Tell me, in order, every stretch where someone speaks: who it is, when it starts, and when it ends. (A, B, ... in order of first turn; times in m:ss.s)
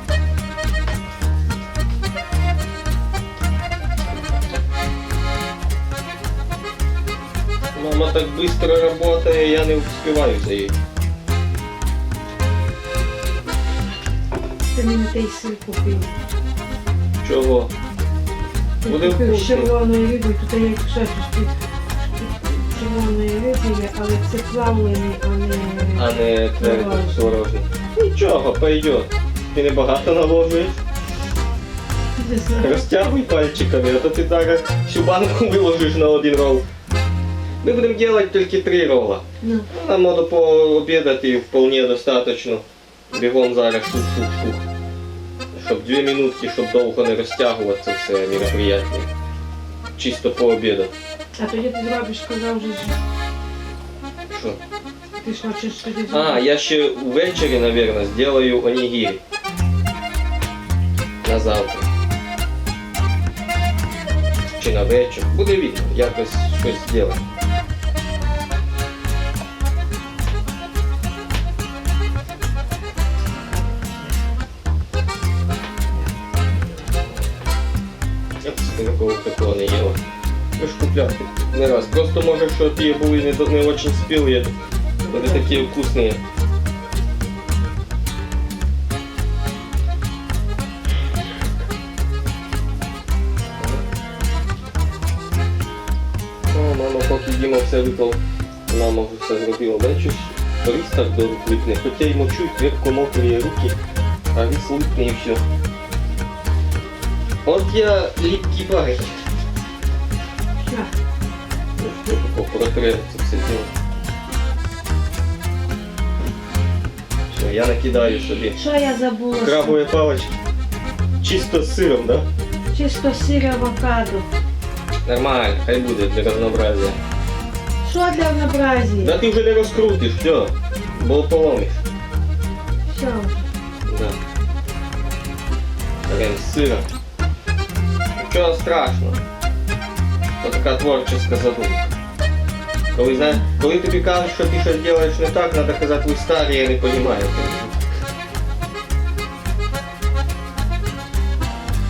0:07.7-0:10.8 A
0:14.7-0:16.1 B
0:17.2-0:17.7 A
0:18.8-0:27.3 B
0:18.8-0:19.7 A
0:25.9-0:30.8 A
0:32.2-0:32.8 B
0:32.6-0:36.6 A
0:37.6-0:44.6 A
0:39.4-0:39.7 B
0:45.5-0:49.1 A
0:50.0-0:50.9 A
0:51.4-0:52.9 B
0:54.3-0:54.6 A
0:55.2-0:56.4 B
0:56.1-0:59.2 A
1:01.2-1:01.9 A
1:04.6-1:07.2 A
1:13.2-1:14.2 B
1:15.9-1:17.3 B
1:18.4-1:20.0 A
1:20.6-1:24.5 A
1:25.0-1:25.8 B
1:25.1-1:26.2 A
1:33.6-1:33.8 A
1:36.5-1:43.8 A
1:44.3-1:45.4 A
1:47.4-1:49.2 A
1:50.6-1:50.9 B
1:51.8-1:53.7 A
1:57.3-1:58.6 A
1:58.5-1:59.8 B
1:59.3-2:00.4 A
2:01.2-2:02.2 A
2:02.7-2:04.3 B
2:05.0-2:07.0 A
2:07.8-2:09.2 B
2:09.0-2:11.8 A
2:12.9-2:13.5 B
2:13.8-2:14.2 A
2:16.0-2:16.9 A
2:18.2-2:19.2 A
2:20.4-2:21.9 A
2:22.9-2:27.8 A